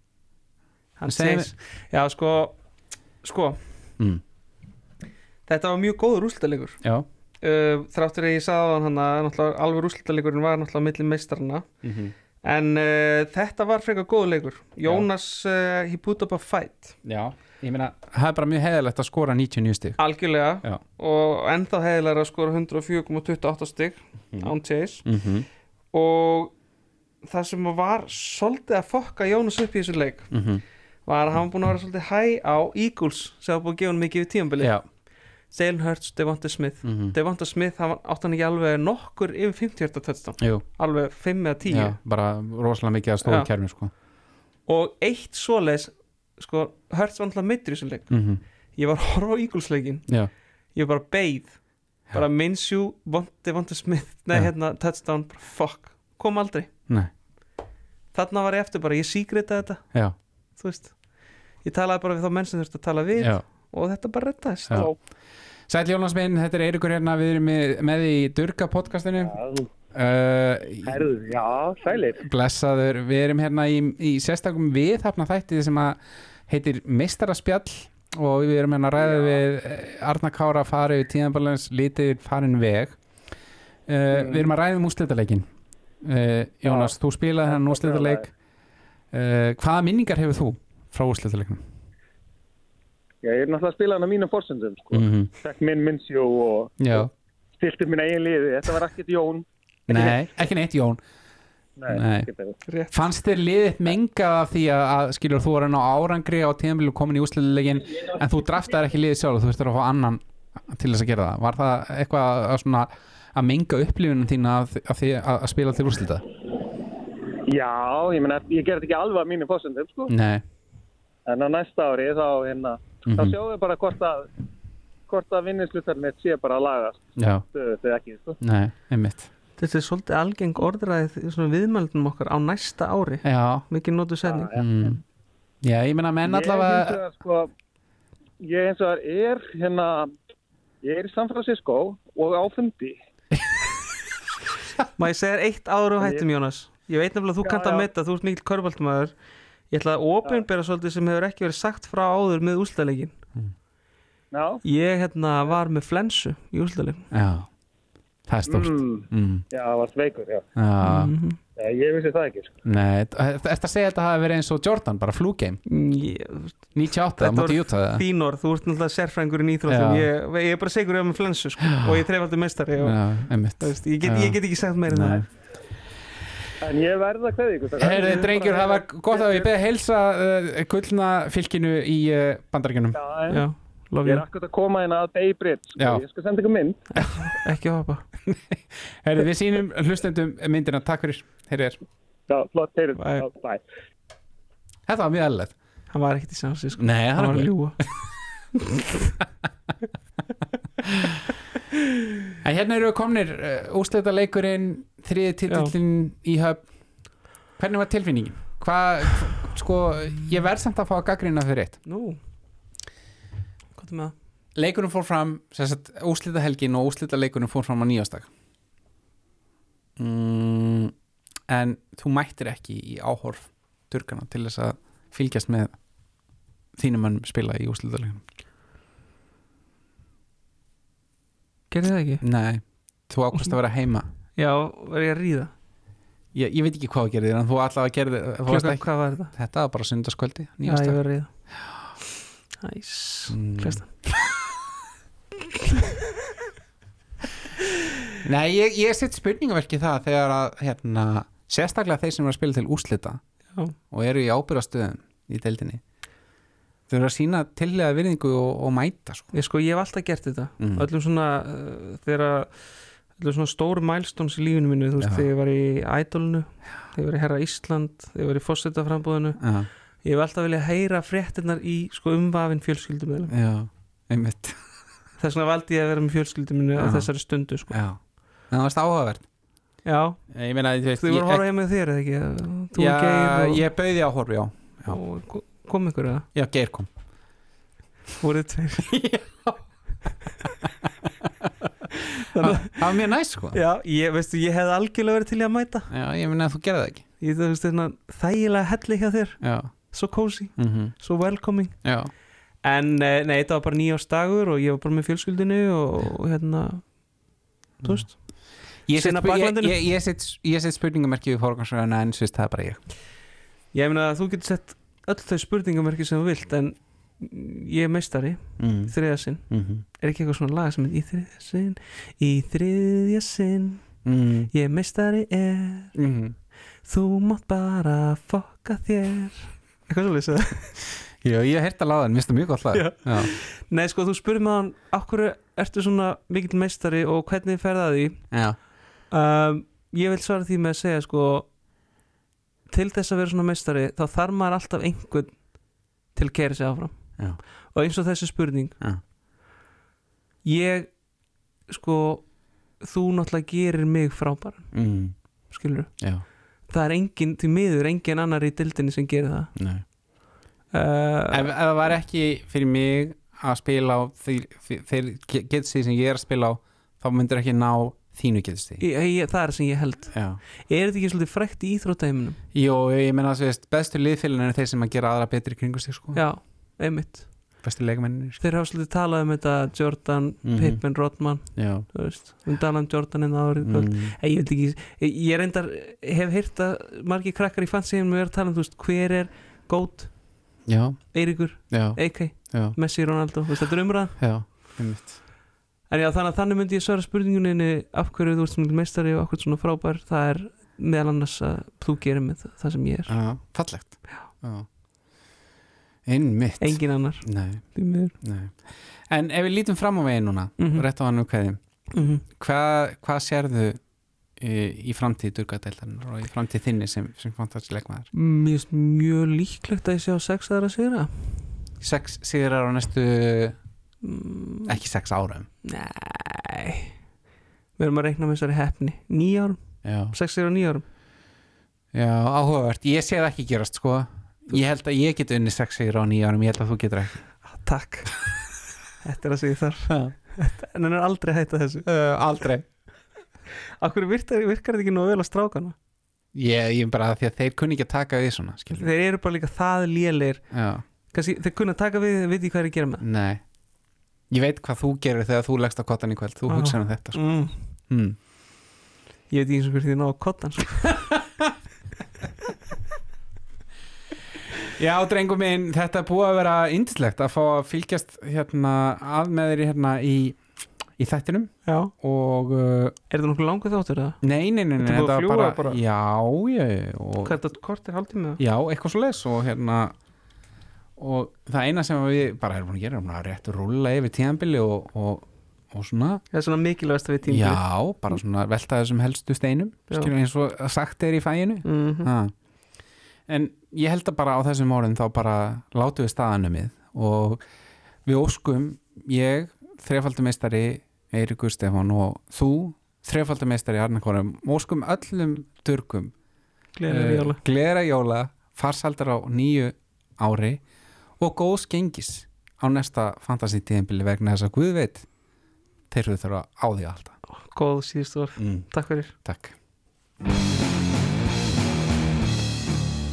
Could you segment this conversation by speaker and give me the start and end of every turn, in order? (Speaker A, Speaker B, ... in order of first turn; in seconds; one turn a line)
Speaker A: 1.0-2.6
Speaker B: 1.1-1.5
Speaker A: 3.2-3.6
Speaker A: 5.5-6.8
Speaker A: 7.4-11.7
Speaker B: 11.8-12.1
Speaker A: 12.4-17.0
Speaker B: 17.0-20.0
Speaker A: 20.0-25.1
Speaker B: 25.0-25.5
Speaker A: 25.9-26.5
Speaker A: 27.2-30.3
Speaker B: 30.3-30.6
Speaker A: 31.1-34.7
Speaker B: 34.6-34.8
Speaker A: 35.5-42.0
Speaker B: 36.8-37.1
Speaker B: 40.4-40.6
Speaker B: 41.6-43.9
Speaker A: 43.2-43.5
Speaker A: 44.7-48.1
Speaker B: 48.1-48.4
Speaker A: 48.7-50.1
Speaker A: 50.7-51.6
Speaker A: 52.1-56.7
Speaker A: 58.1-59.9
Speaker A: 60.6-61.0
Speaker A: 61.6-64.9
Speaker B: 63.2-63.4
Speaker B: 64.7-65.0
Speaker C: 64.7-65.0
Speaker B: 65.7-69.4
Speaker C: 69.2-69.7
Speaker B: 69.9-71.0
Speaker C: 70.8-72.2
Speaker B: 72.2-83.0
Speaker C: 79.0-79.4
Speaker B: 83.9-85.5
Speaker C: 84.1-84.5
Speaker B: 86.0-88.3
Speaker C: 86.7-86.9
Speaker C: 87.5-88.3
Speaker B: 89.1-91.6
Speaker C: 93.2-97.0
Speaker B: 94.9-95.3
Speaker B: 96.8-97.1
Speaker C: 97.6-100.1
Speaker B: 99.9-101.0
Speaker C: 101.8-102.5
Speaker B: 101.9-102.3
Speaker A: 102.6-102.9
Speaker B: 102.9-116.2
Speaker C: 117.5-120.1
Speaker B: 120.1-120.4
Speaker C: 121.2-124.3
Speaker B: 123.1-123.4
Speaker C: 125.1-128.4
Speaker B: 127.2-127.4
Speaker B: 128.4-129.3
Speaker A: 129.6-134.5
Speaker B: 133.2-133.7
Speaker C: 134.2-135.0
Speaker B: 134.5-135.0
Speaker B: 135.6-137.0
Speaker C: 136.2-137.5
Speaker C: 138.4-140.1
Speaker C: 140.8-142.9
Speaker A: 145.0-149.1
Speaker C: 146.0-146.2
Speaker C: 147.4-147.9
Speaker A: 149.7-153.2
Speaker C: 154.3-154.6
Speaker A: 154.6-157.1
Speaker B: 157.1-157.5
Speaker B: 158.3-159.4
Speaker C: 158.5-160.4
Speaker B: 160.6-161.1
Speaker A: 160.8-161.4
Speaker C: 161.6-162.5
Speaker B: 162.6-165.6
Speaker A: 165.7-173.0
Speaker B: 166.7-168.0
Speaker B: 169.7-170.1
Speaker B: 171.6-172.0
Speaker B: 172.8-175.3
Speaker A: 173.6-175.2
Speaker C: 176.6-179.5
Speaker B: 177.8-183.0
Speaker C: 182.9-183.4
Speaker A: 183.3-184.2
Speaker C: 184.0-187.0
Speaker B: 185.8-186.0
Speaker A: 186.9-188.1
Speaker B: 188.2-191.8
Speaker C: 192.3-193.6
Speaker A: 192.9-193.2
Speaker B: 194.8-195.5
Speaker A: 195.9-197.8
Speaker B: 196.8-197.9
Speaker A: 198.6-199.1
Speaker B: 202.4-206.6
Speaker A: 205.5-205.7
Speaker B: 207.6-211.8
Speaker A: 211.8-212.2
Speaker A: 213.8-214.1
Speaker B: 214.5-218.3
Speaker B: 220.0-220.9
Speaker B: 221.5-225.8
Speaker B: 226.8-228.2
Speaker A: 231.7-232.2
Speaker B: 232.2-234.1
Speaker A: 234.3-235.5
Speaker B: 236.3-241.0
Speaker A: 238.5-239.3
Speaker A: 240.6-241.3
Speaker A: 242.6-243.9
Speaker B: 243.3-244.3
Speaker B: 248.2-253.2
Speaker B: 253.9-255.8
Speaker B: 256.9-259.3
Speaker A: 259.3-269.4
Speaker B: 260.6-260.9
Speaker B: 265.0-265.3
Speaker B: 269.4-269.7
Speaker A: 270.0-273.3
Speaker B: 273.3-274.6
Speaker A: 275.2-277.8
Speaker B: 276.8-277.1
Speaker B: 277.7-279.3
Speaker A: 279.8-280.2
Speaker B: 280.3-281.4
Speaker A: 281.0-283.6
Speaker B: 282.7-285.0
Speaker A: 284.9-286.3
Speaker B: 286.3-286.9
Speaker A: 288.2-288.9
Speaker B: 288.8-289.6
Speaker A: 292.1-292.9
Speaker B: 292.2-293.6
Speaker A: 293.5-295.9
Speaker B: 295.9-297.0
Speaker A: 297.2-301.8
Speaker B: 299.4-299.7
Speaker B: 300.6-300.9
Speaker B: 301.8-302.1
Speaker A: 302.6-306.9
Speaker A: 307.8-308.2
Speaker B: 307.8-308.1
Speaker B: 308.9-312.8
Speaker A: 308.9-309.8
Speaker A: 313.7-323.9
Speaker B: 318.6-318.9
Speaker B: 319.5-319.8
Speaker B: 324.0-324.5
Speaker A: 324.5-325.9
Speaker B: 325.9-326.3
Speaker A: 326.8-330.8
Speaker B: 331.2-333.3
Speaker A: 332.7-338.2
Speaker B: 338.3-338.6
Speaker A: 339.1-341.5
Speaker A: 342.7-345.5
Speaker A: 346.1-346.9
Speaker A: 347.7-348.8
Speaker A: 350.4-350.9
Speaker A: 351.7-352.3
Speaker A: 352.8-354.7
Speaker B: 354.7-355.1
Speaker A: 355.5-355.9
Speaker B: 356.0-356.2
Speaker A: 356.7-359.5
Speaker B: 359.6-359.8
Speaker A: 360.7-361.5
Speaker B: 361.3-368.8
Speaker A: 368.8-372.4
Speaker B: 370.1-370.4
Speaker B: 372.5-376.2
Speaker A: 376.1-377.3
Speaker B: 377.6-378.4
Speaker A: 378.4-390.1
Speaker B: 380.4-380.8
Speaker B: 381.5-381.9
Speaker B: 383.6-384.1
Speaker B: 390.6-392.8
Speaker A: 391.1-394.1
Speaker B: 394.2-395.2
Speaker A: 395.9-403.2
Speaker B: 403.1-404.7
Speaker B: 406.1-407.6
Speaker A: 406.6-408.1
Speaker B: 408.2-411.6
Speaker A: 410.6-410.9
Speaker A: 411.9-412.2
Speaker B: 412.2-413.8
Speaker B: 414.4-418.1
Speaker A: 418.1-421.3
Speaker B: 421.8-423.6
Speaker A: 424.0-424.8
Speaker B: 424.7-425.5
Speaker A: 425.6-426.9
Speaker A: 427.8-429.6
Speaker B: 429.8-430.1
Speaker A: 430.1-430.8
Speaker B: 431.9-437.2
Speaker A: 437.4-438.2
Speaker A: 439.0-441.9
Speaker B: 439.9-440.1
Speaker B: 441.9-442.6
Speaker A: 443.8-445.8
Speaker B: 446.3-448.9
Speaker A: 448.7-450.4
Speaker B: 450.5-450.8
Speaker A: 451.1-453.0
Speaker B: 453.0-453.4
Speaker B: 454.3-458.2
Speaker A: 456.5-457.6
Speaker A: 459.3-461.0
Speaker B: 461.1-461.5
Speaker B: 464.6-470.4
Speaker B: 471.0-472.9
Speaker A: 471.6-471.9
Speaker A: 473.1-474.2
Speaker B: 474.2-477.4
Speaker A: 474.8-475.8
Speaker A: 477.2-478.4
Speaker B: 478.4-479.9
Speaker B: 481.0-486.2
Speaker A: 486.3-487.6
Speaker B: 487.3-492.3
Speaker A: 491.6-492.1
Speaker B: 493.3-497.4
Speaker B: 498.0-506.1
Speaker A: 506.8-507.4
Speaker B: 506.9-510.6
Speaker B: 511.2-515.0
Speaker B: 515.9-517.1
Speaker A: 517.3-519.1
Speaker B: 518.4-518.7
Speaker B: 519.2-519.5